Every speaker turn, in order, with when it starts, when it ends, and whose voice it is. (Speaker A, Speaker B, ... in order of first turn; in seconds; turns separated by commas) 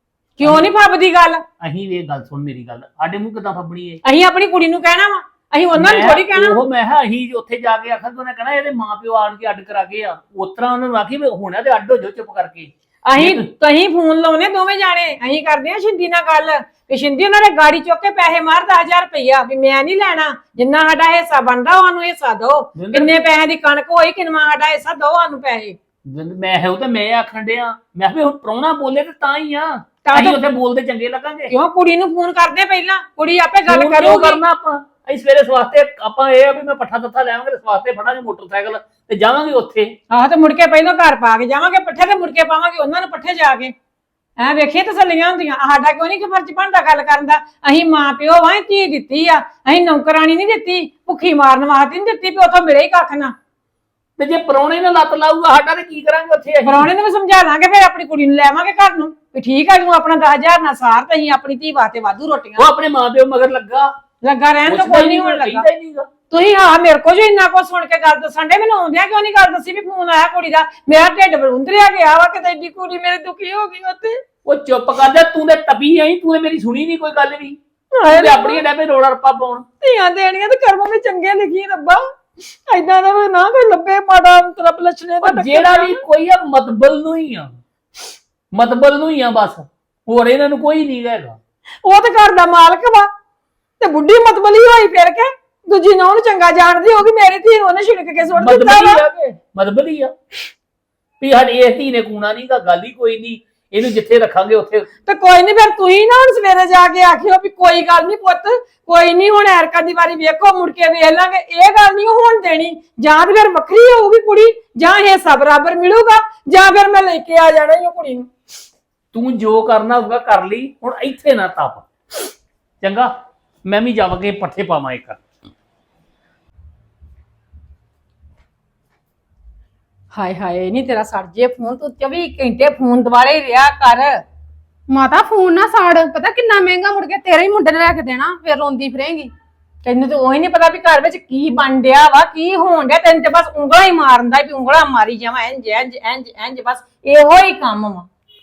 Speaker A: 0.4-1.4, Speaker B: 0.4-0.7, Speaker B: 1.6-4.0, Speaker A: 4.0-6.6, Speaker B: 5.8-13.5, Speaker A: 13.1-25.8, Speaker B: 22.8-23.1, Speaker B: 26.1-31.5, Speaker A: 30.1-30.4, Speaker A: 31.5-34.4, Speaker B: 33.7-40.0, Speaker A: 40.1-43.7, Speaker A: 44.4-53.4, Speaker B: 54.2-56.9, Speaker A: 56.6-62.7, Speaker B: 62.6-63.9, Speaker A: 64.2-65.7, Speaker B: 64.7-66.1, Speaker A: 66.3-74.2, Speaker B: 74.5-79.7, Speaker A: 78.0-78.6, Speaker A: 79.8-86.0, Speaker B: 85.2-87.6, Speaker B: 88.5-91.4, Speaker A: 91.8-93.1, Speaker A: 93.8-99.0, Speaker B: 98.4-100.1, Speaker B: 101.2-104.9, Speaker A: 105.1-118.3, Speaker B: 119.1-121.9, Speaker B: 122.8-123.1, Speaker B: 123.7-125.2, Speaker A: 130.1-134.2, Speaker C: 134.9-139.3, Speaker A: 139.8-148.1